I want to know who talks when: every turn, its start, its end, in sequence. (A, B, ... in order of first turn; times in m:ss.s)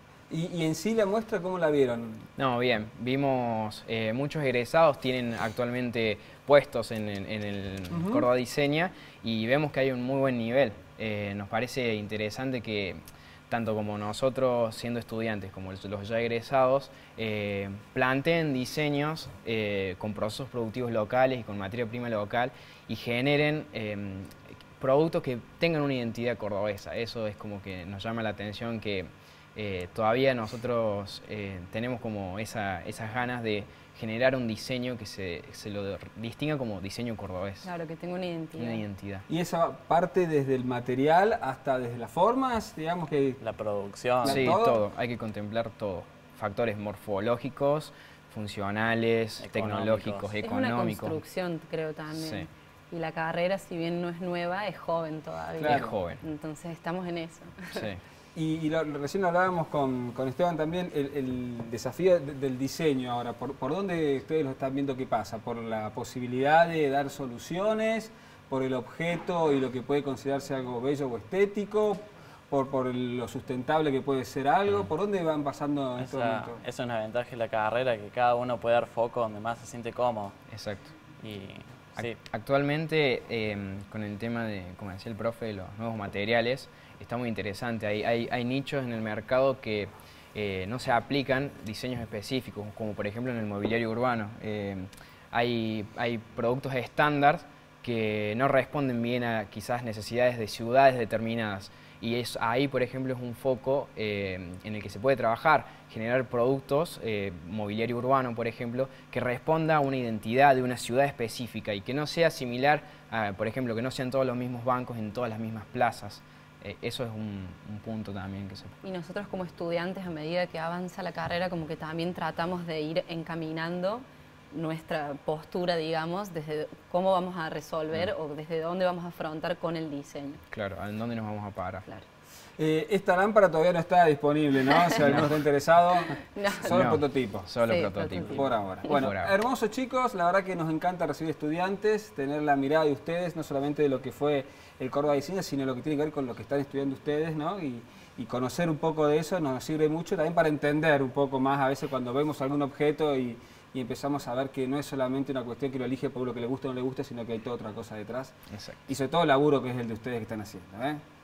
0:00.3-0:02.3 A
0:02.4-0:37.7 B
0:07.9-0:08.2 A
0:37.6-0:38.8 C
0:38.6-0:39.2 B
0:39.3-0:43.4 A
0:43.4-0:44.5 D
0:44.2-0:44.8 A
0:44.2-0:51.2 B
0:49.4-0:50.3 D
0:50.4-0:57.8 C
0:52.1-0:52.5 B
0:55.6-0:55.9 A
0:55.6-0:56.2 B
0:57.7-0:58.0 B
0:58.3-1:16.6 A
1:14.7-1:14.9 B
1:16.0-1:20.4 D
1:20.5-1:20.9 B
1:21.2-1:22.2 D
1:22.0-1:58.8 B
1:58.8-2:10.4 C
2:10.5-2:11.8 B
2:12.6-2:17.5 A
2:15.0-2:15.3 B
2:16.3-2:16.8 C
2:16.7-2:19.3 B
2:17.6-2:18.5 C
2:18.1-2:38.3 A
2:38.5-2:38.9 B
2:38.9-2:41.0 A